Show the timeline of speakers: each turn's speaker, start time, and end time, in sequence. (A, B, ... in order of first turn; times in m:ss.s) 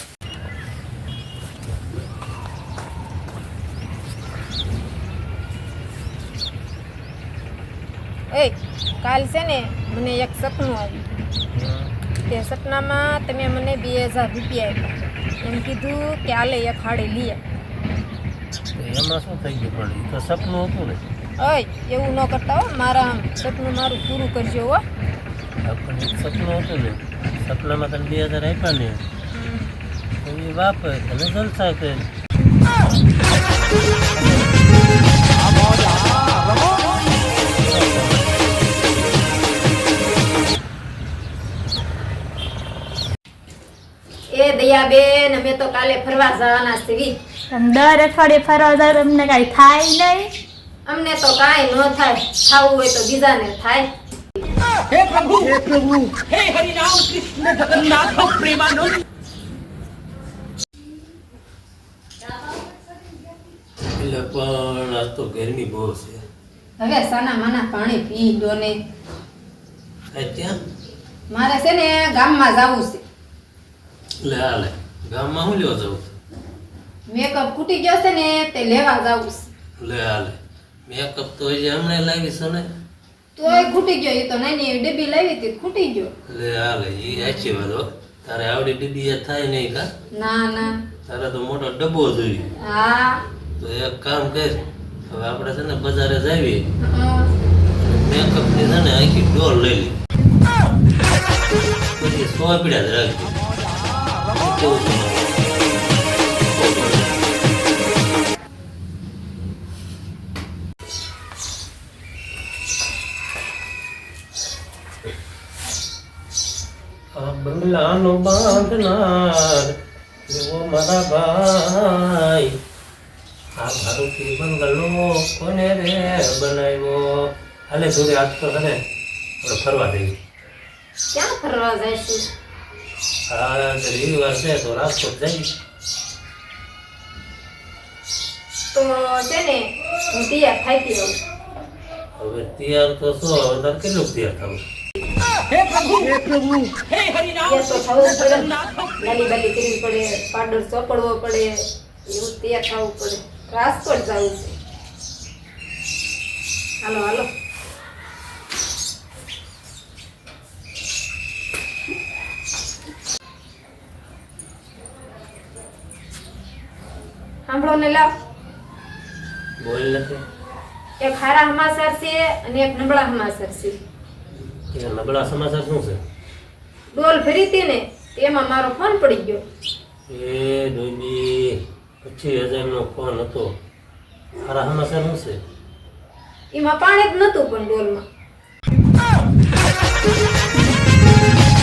0:08.3-0:11.1 A
0:11.5-0:11.9 B
0:12.2-0:17.4 A
0:18.8-0:21.0 B
0:21.4-0:24.8 A
0:25.6-0:29.0 B
0:29.3-0:29.7 A
0:30.2-0:32.1 B
0:34.1-0:34.6 B
0:37.5-0:38.8 B
0:44.3-0:47.2 A
0:47.5-0:50.3 C
0:50.9-0:53.9 A
0:54.9-0:59.0 C
1:04.0-1:06.2 B
1:06.8-1:08.8 A
1:10.1-1:10.6 B
1:11.3-1:13.0 A
1:14.2-1:16.1 B
1:17.1-1:19.5 A
1:19.8-1:22.7 B
1:23.4-1:26.1 A
1:26.3-1:29.9 B
1:30.1-1:30.7 A
1:31.1-1:32.5 B
1:32.6-1:33.2 A
1:33.6-1:36.6 B
1:36.8-1:37.3 A
1:37.8-1:40.0 B
1:42.0-1:43.4 B
1:44.3-1:45.4 B
1:46.4-1:47.2 B
1:57.2-1:59.8 B
2:00.3-2:02.6 B
2:03.6-2:08.8 B
2:09.4-2:10.1 B
2:11.1-2:12.2 A
2:13.3-2:15.5 B
2:18.7-2:21.2 A
2:22.2-2:24.6 B
2:25.6-2:26.9 C
2:27.4-2:31.6 A
2:32.1-2:34.6 A
2:36.8-2:37.3 A
2:47.5-2:48.1 A
2:49.6-2:50.2 B
2:51.0-2:53.8 A
2:54.7-2:56.0 B
2:56.9-2:59.4 A
3:00.1-3:03.5 B
3:04.4-3:05.4 B
3:06.5-3:08.0 A